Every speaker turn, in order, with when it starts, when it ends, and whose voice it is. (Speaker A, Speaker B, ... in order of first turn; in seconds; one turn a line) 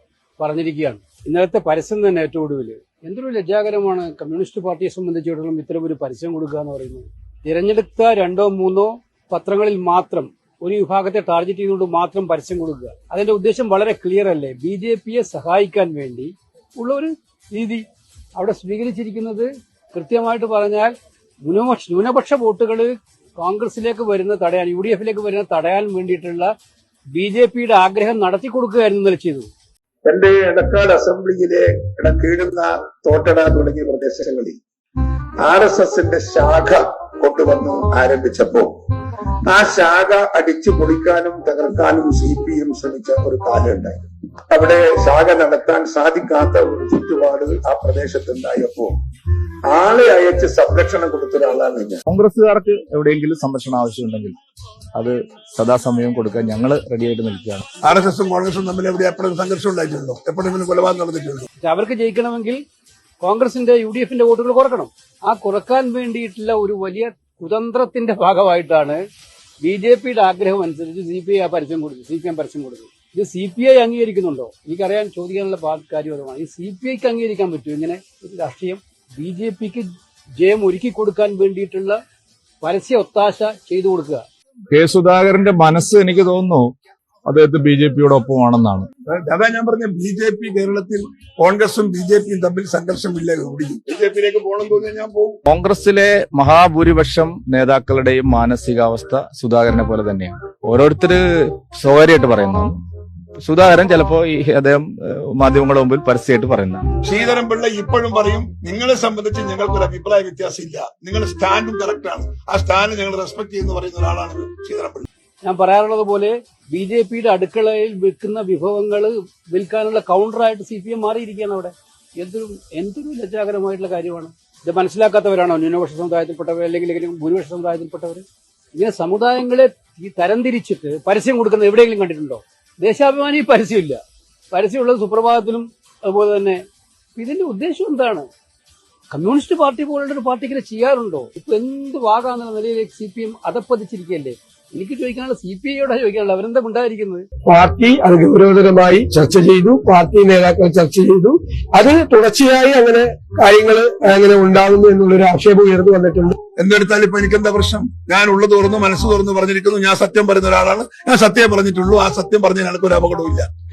Speaker A: 0.4-17.8
Speaker A: 18.4-26.5
Speaker A: 27.1-29.5
Speaker B: 30.1-34.6
Speaker B: 35.4-38.7
Speaker B: 39.5-49.0
Speaker B: 49.7-52.0
Speaker C: 52.1-54.4
Speaker C: 55.0-57.7
Speaker D: 57.8-61.5
Speaker A: 61.6-62.6
Speaker A: 63.2-69.0
Speaker A: 69.6-82.0
Speaker A: 82.6-84.2
Speaker C: 84.7-86.7
Speaker C: 87.3-88.9
Speaker D: 89.1-95.4
Speaker C: 95.5-102.8
Speaker C: 103.4-106.8
Speaker D: 107.0-115.1
Speaker A: 115.4-128.2
Speaker A: 128.8-134.0
Speaker A: 134.5-136.6
Speaker A: 137.2-138.3
Speaker A: 139.1-147.2
Speaker E: 147.5-156.3
Speaker D: 156.6-163.5